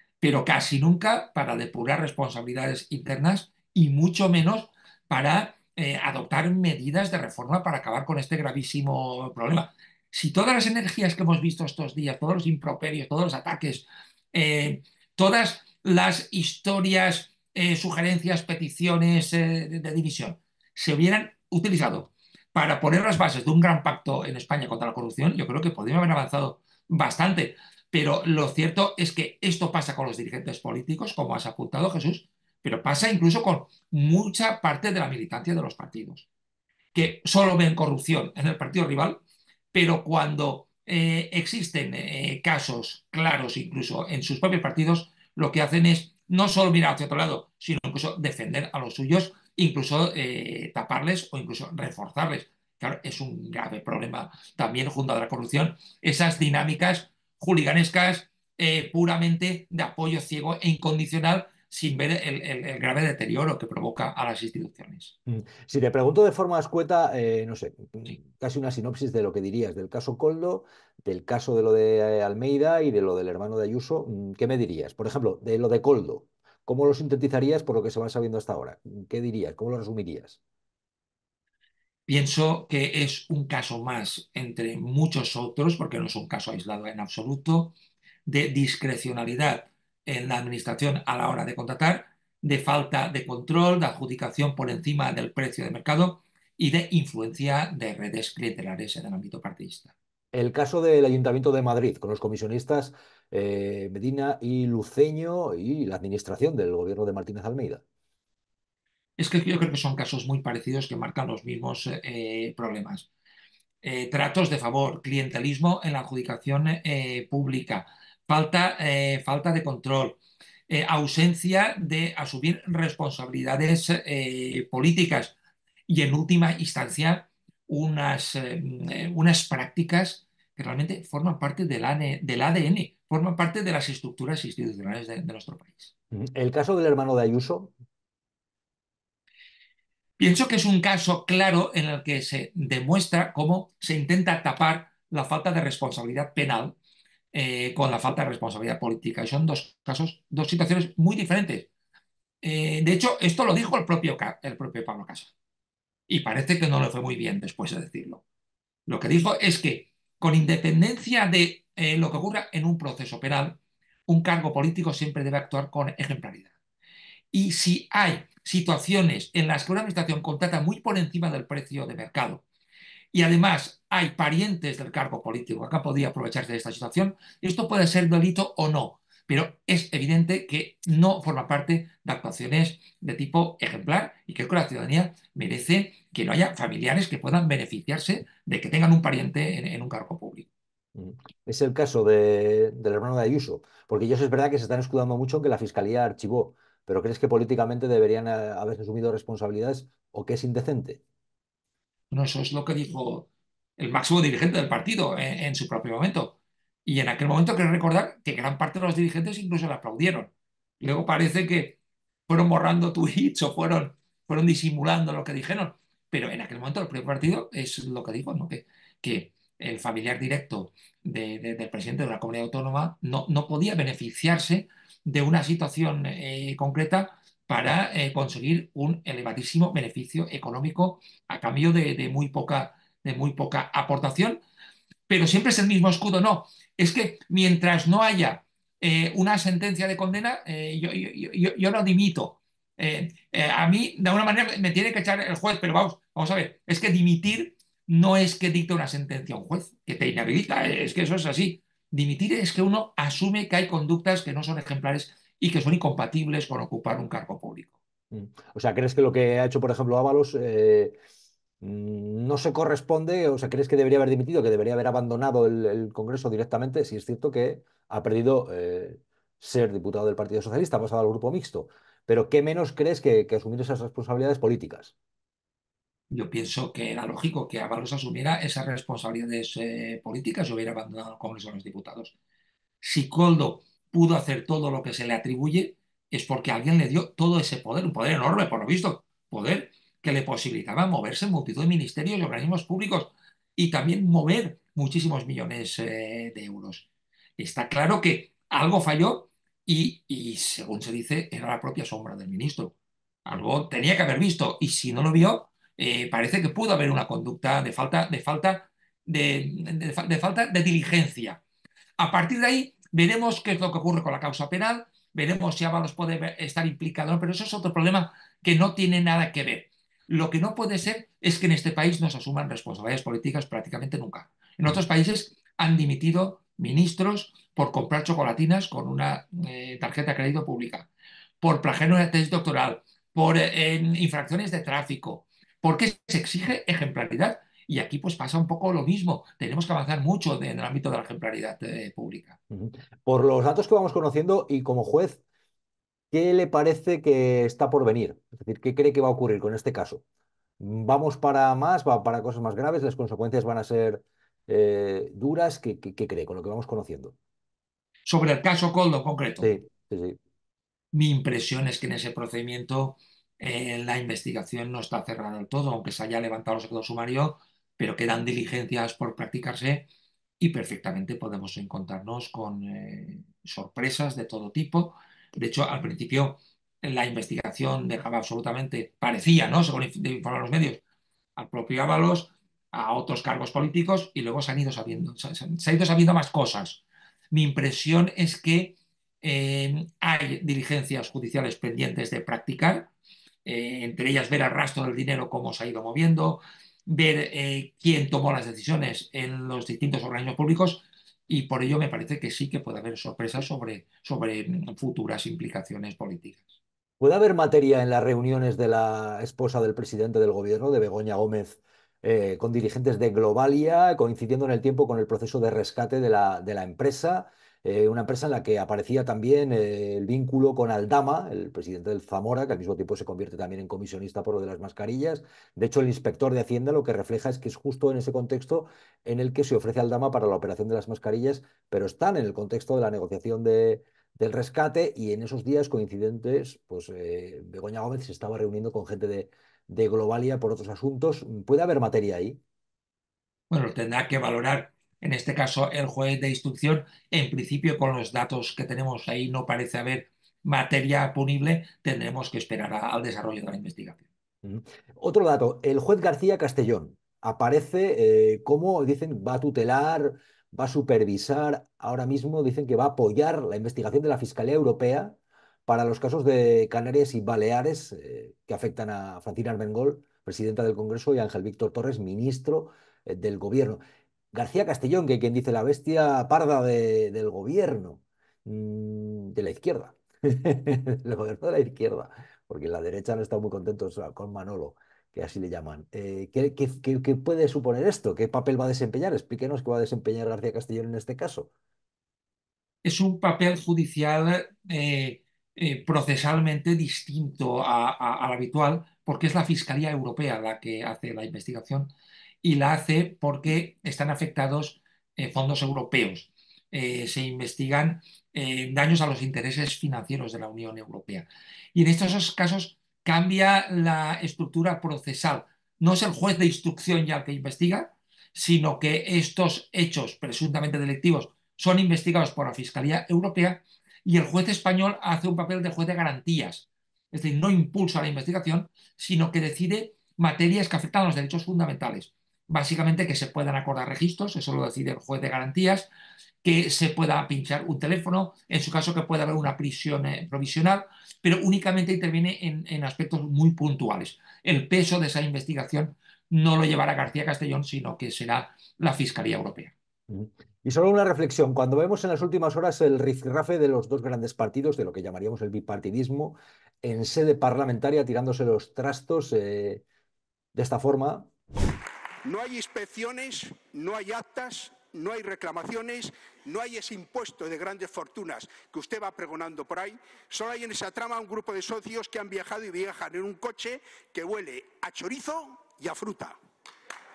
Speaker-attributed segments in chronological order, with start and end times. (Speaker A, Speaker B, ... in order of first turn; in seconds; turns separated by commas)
Speaker A: 0.2-36.3, Speaker A: 36.9-39.2, Speaker A: 39.7-65.2, Speaker B: 65.3-80.4, Speaker A: 82.1-87.7, Speaker A: 88.2-99.9, Speaker B: 100.3-107.8, Speaker A: 109.2-113.1, Speaker A: 113.8-125.3, Speaker A: 125.9-135.9, Speaker B: 136.1-137.7, Speaker A: 140.2-146.8, Speaker A: 147.3-151.7, Speaker A: 152.4-155.3, Speaker A: 156.1-158.2, Speaker A: 158.9-166.5, Speaker A: 167.3-172.4, Speaker A: 173.1-190.5, Speaker B: 190.9-201.0, Speaker A: 202.1-234.4, Speaker A: 235.1-257.7, Speaker B: 258.1-261.0, Speaker B: 261.6-274.9, Speaker A: 276.1-282.1, Speaker A: 282.8-296.9, Speaker A: 297.4-311.4, Speaker A: 312.0-330.9, Speaker A: 331.4-342.4, Speaker B: 342.5-345.2, Speaker B: 346.1-350.0, Speaker B: 350.6-357.1, Speaker A: 358.1-359.5, Speaker B: 359.4-360.2, Speaker A: 360.9-369.9, Speaker A: 370.4-380.8, Speaker A: 381.4-392.9, Speaker A: 393.4-406.5, Speaker B: 407.0-442.4, Speaker A: 443.5-454.0, Speaker B: 454.4-473.8, Speaker B: 474.3-491.5, Speaker A: 492.8-501.9, Speaker A: 502.4-535.9, Speaker A: 536.4-549.7, Speaker B: 550.1-559.8, Speaker B: 560.5-561.3, Speaker C: 562.2-576.4